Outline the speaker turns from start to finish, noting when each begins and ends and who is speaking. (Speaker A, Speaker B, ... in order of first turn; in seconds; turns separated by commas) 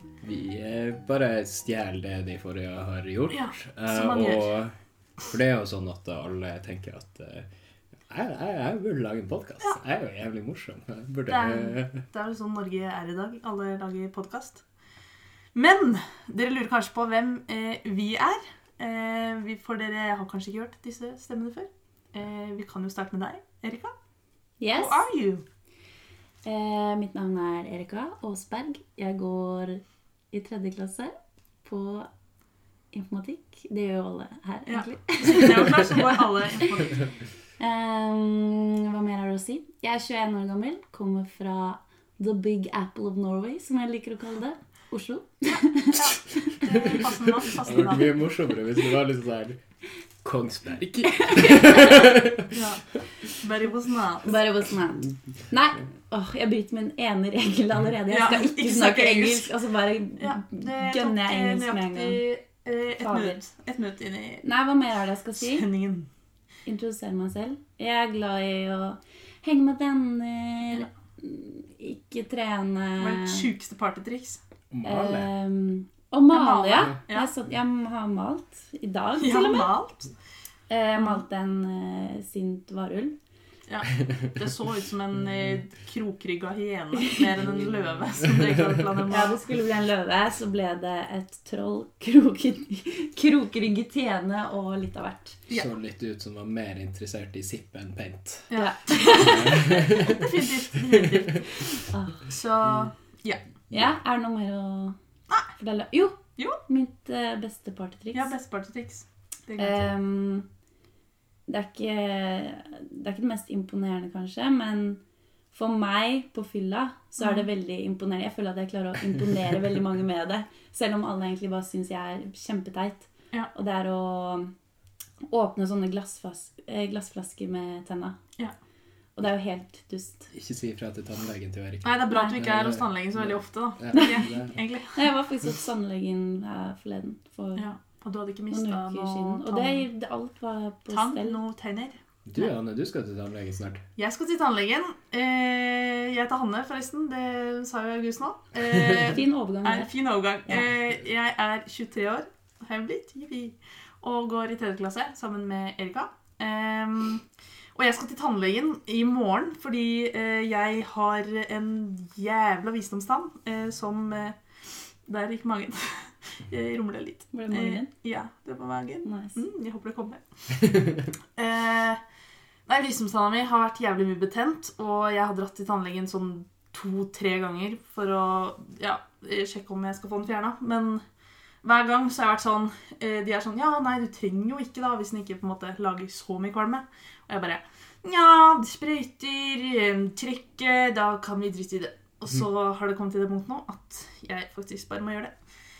Speaker A: 0.2-7.5, Speaker B: 3.3-4.5, Speaker A: 8.1-12.0, Speaker B: 11.3-14.6, Speaker B: 15.6-23.9, Speaker C: 24.6-25.1, Speaker B: 24.8-25.4, Speaker C: 26.4-32.1, Speaker C: 32.9-36.9, Speaker B: 34.7-36.9, Speaker C: 37.6-47.0, Speaker B: 45.5-48.2, Speaker A: 46.9-49.6, Speaker A: 50.2-53.0, Speaker C: 51.1-52.1, Speaker B: 52.5-54.4, Speaker C: 54.2-62.2, Speaker B: 58.1-59.5, Speaker B: 60.2-64.4, Speaker C: 63.0-63.4, Speaker C: 64.4-65.7, Speaker B: 65.4-66.1, Speaker C: 66.7-73.5, Speaker B: 73.0-74.4, Speaker A: 74.7-75.3, Speaker C: 74.8-79.7, Speaker B: 76.3-77.3, Speaker B: 79.2-80.1, Speaker C: 80.7-83.2, Speaker B: 81.0-81.2, Speaker B: 83.7-89.4, Speaker C: 87.0-87.3, Speaker C: 89.1-95.4, Speaker A: 95.5-98.5, Speaker B: 98.5-101.7, Speaker C: 98.5-99.6, Speaker A: 99.2-101.4, Speaker C: 101.5-102.3, Speaker B: 102.3-103.4, Speaker C: 103.7-105.0, Speaker C: 105.5-108.3, Speaker B: 108.1-109.8, Speaker C: 109.6-110.5, Speaker C: 111.5-115.0, Speaker C: 115.5-124.5, Speaker B: 117.2-117.5, Speaker C: 125.3-128.2, Speaker C: 129.2-130.3, Speaker A: 130.3-134.6, Speaker B: 131.8-135.1, Speaker C: 132.1-132.4, Speaker C: 134.9-137.7, Speaker B: 137.6-139.9, Speaker C: 138.5-141.4, Speaker B: 140.9-142.0, Speaker A: 142.3-143.8, Speaker B: 144.0-157.2, Speaker C: 149.0-149.9, Speaker B: 157.8-164.4, Speaker B: 165.1-170.8, Speaker C: 167.3-167.9, Speaker C: 169.1-169.4, Speaker B: 171.4-172.0, Speaker B: 172.7-181.0, Speaker B: 181.6-195.3